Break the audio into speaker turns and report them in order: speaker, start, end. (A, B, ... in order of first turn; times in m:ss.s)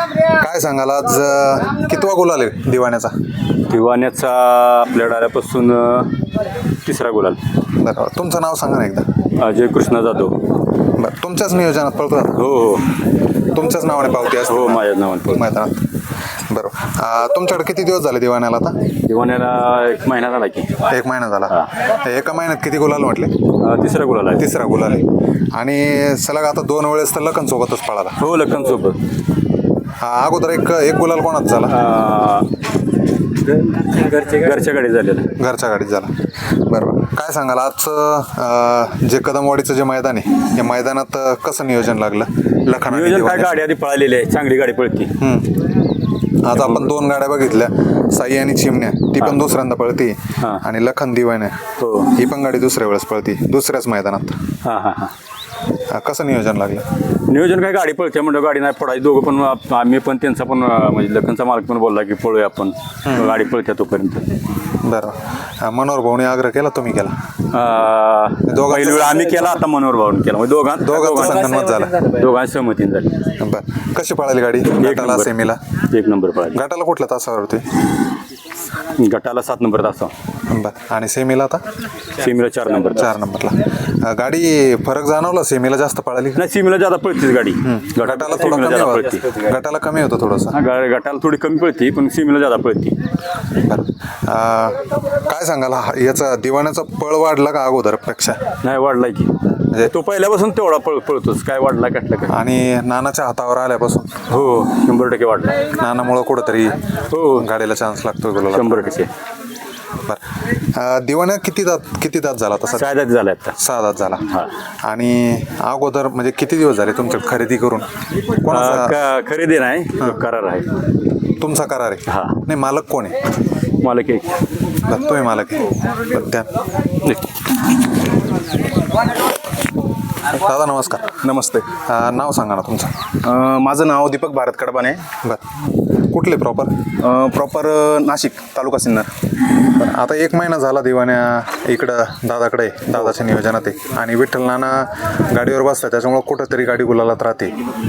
0:00.2-0:03.1 A
0:03.7-0:06.2 B
0:06.8-0:07.4 B
0:07.8-0:09.1 A
0:09.4-0:10.4 B
0:10.9-0:12.6 A
0:12.4-0:12.9 B
0:13.4-0:15.8 A
0:14.4-0:15.4 B
0:16.5-0:18.8 A
0:19.1-0:20.7 B
0:20.9-0:23.4 A
0:23.6-0:24.5 B
0:24.4-0:28.2 A
0:28.2-0:29.0 B
0:30.0-0:31.9 A
0:31.7-0:32.5 B
0:33.5-0:35.3 B
0:35.4-0:43.6 A
0:42.8-0:45.2 B
0:45.2-0:45.5 A
0:46.4-0:51.6 A
0:46.6-0:46.9 B
0:51.8-0:52.1 B
0:52.1-0:54.4 A
0:54.6-0:55.1 B
0:55.9-0:56.8 A
0:57.3-1:04.3 B
1:03.0-1:03.4 A
1:04.8-1:07.2 A
1:07.5-1:13.1 B
1:08.4-1:09.5 A
1:10.8-1:12.1 A
1:13.4-1:15.6 A
1:14.8-1:15.3 B
1:15.9-1:16.6 B
1:16.5-1:17.6 A
1:19.0-1:20.1 B
1:20.5-1:21.6 A
1:22.2-1:23.1 B
1:22.9-1:26.4 A
1:26.4-1:29.3 B
1:27.6-1:30.6 A
1:30.5-1:33.0 B
1:33.6-1:38.4 A
1:38.6-1:39.3 B
1:39.6-1:39.9 A
1:39.9-1:42.4 B
1:42.3-1:44.1 A
1:44.3-1:45.6 B
1:45.7-1:49.0 A
1:47.1-1:47.5 B
1:48.5-1:49.1 B
1:50.7-1:53.0 A
1:52.8-1:53.6 B
1:53.6-1:54.3 A
1:54.9-1:59.0 A
1:58.5-2:00.7 B
2:01.4-2:03.2 A
2:02.1-2:02.4 B
2:03.8-2:04.3 B
2:04.9-2:06.5 A
2:07.0-2:07.4 B
2:10.4-2:11.2 A
2:11.2-2:11.7 C
2:11.8-2:12.9 A
2:13.2-2:15.0 C
2:15.2-2:16.7 A
2:17.0-2:19.1 C
2:19.7-2:27.5 A